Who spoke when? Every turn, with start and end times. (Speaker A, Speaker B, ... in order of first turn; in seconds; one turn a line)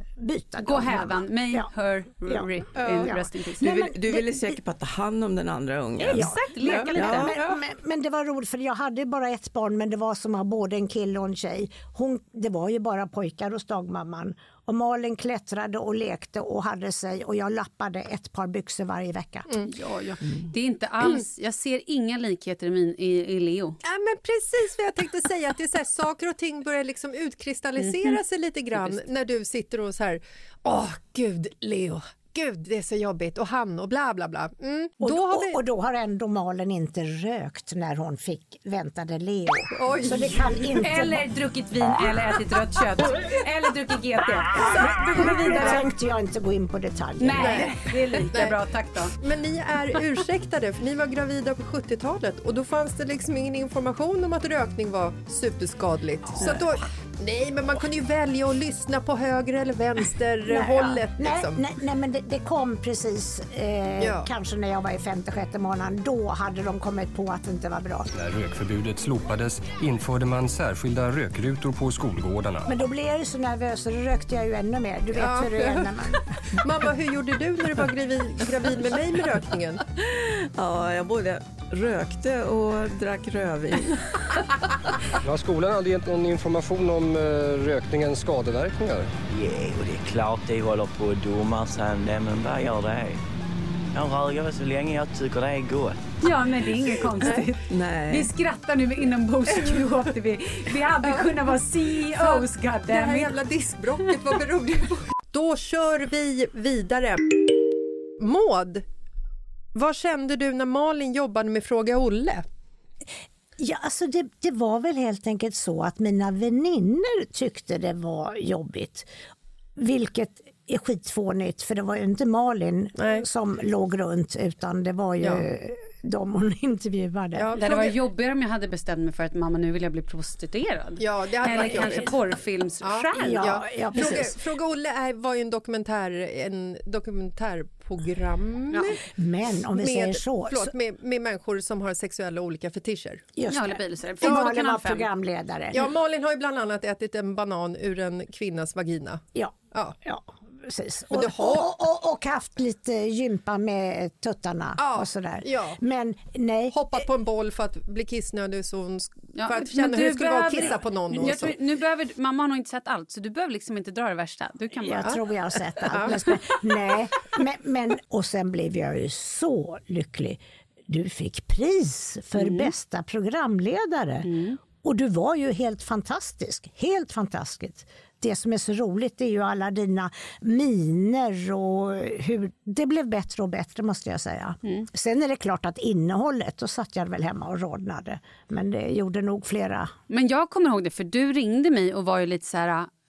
Speaker A: 0.2-1.7
Speaker B: 0.6-3.8
Speaker A: 2.3-4.6
Speaker C: 2.8-3.1
Speaker C: 3.6-7.4
Speaker B: 6.0-7.6
Speaker A: 6.0-19.5
Speaker D: 6.6-7.3
Speaker B: 19.7-23.8
Speaker D: 23.8-35.6
Speaker B: 27.8-28.2
Speaker B: 28.8-29.0
Speaker A: 35.0-41.2
Speaker D: 39.7-40.9
Speaker B: 40.8-45.9
Speaker D: 44.8-45.8
Speaker A: 44.8-47.8
Speaker B: 47.2-49.2
Speaker D: 47.3-48.6
Speaker D: 49.2-61.6
Speaker B: 56.4-56.6
Speaker A: 60.5-68.1
Speaker D: 64.0-64.3
Speaker E: 68.1-72.8
Speaker A: 72.7-76.2
Speaker D: 75.2-79.8
Speaker C: 80.0-84.0
Speaker E: 85.2-89.2
Speaker F: 89.3-93.2
Speaker F: 93.9-96.0
Speaker B: 96.2-103.3
Speaker C: 97.7-98.3
Speaker D: 101.0-107.4
Speaker D: 108.2-108.8
Speaker D: 109.7-112.5
Speaker A: 113.6-119.1
Speaker A: 119.8-127.5
Speaker D: 123.0-123.2
Speaker D: 127.3-128.0
Speaker B: 127.5-134.3
Speaker D: 131.0-132.2
Speaker A: 131.5-131.9
Speaker D: 132.8-139.0
Speaker A: 133.2-134.4
Speaker A: 139.1-140.7
Speaker D: 139.8-143.3
Speaker A: 143.4-145.9
Speaker B: 143.5-145.1
Speaker D: 144.3-144.5
Speaker D: 145.7-150.0
Speaker A: 149.4-157.0
Speaker D: 151.1-151.7
Speaker D: 154.8-155.8
Speaker D: 156.7-161.6
Speaker B: 159.4-165.3
Speaker A: 164.8-189.9
Speaker B: 165.9-166.4
Speaker D: 165.9-166.2
Speaker B: 172.4-172.7
Speaker B: 174.2-174.6
Speaker B: 190.1-192.9